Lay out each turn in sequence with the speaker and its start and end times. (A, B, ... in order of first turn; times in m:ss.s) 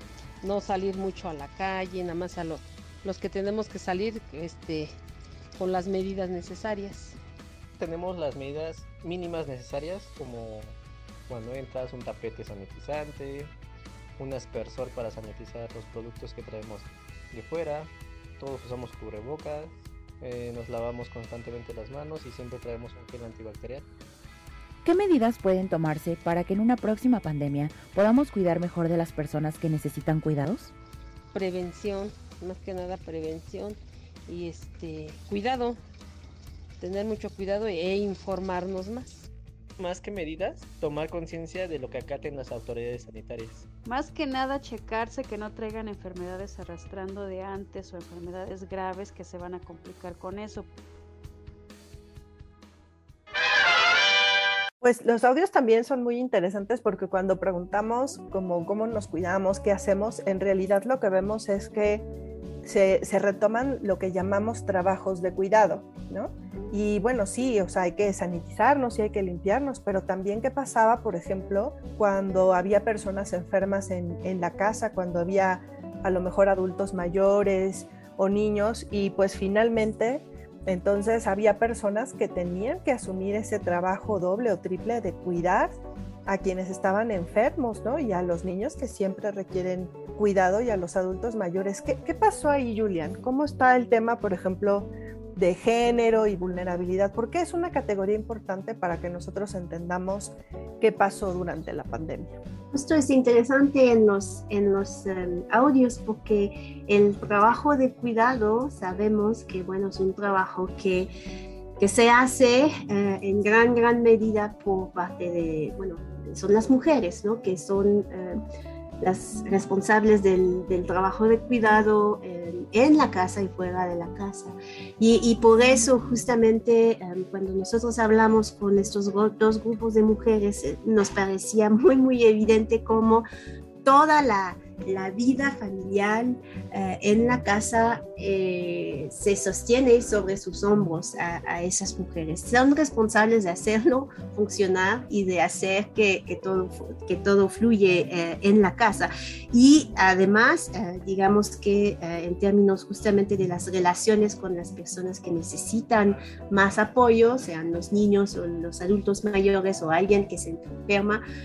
0:00.4-0:04.9 A
0:05.6-0:07.2 A
0:07.8-0:10.8 B
0:11.3-0:13.5 B
0:14.2-0:23.9 B
0:24.8-0:30.7 C
0:31.3-0:35.8 A
0:36.8-0:39.3 A
0:39.8-0:43.6 B
0:43.8-0:50.7 D
0:54.8-1:02.0 E
1:02.6-1:42.3 E
1:42.7-1:51.1 F
1:51.8-1:58.4 F
1:59.0-2:13.2 F
2:13.8-2:41.2 F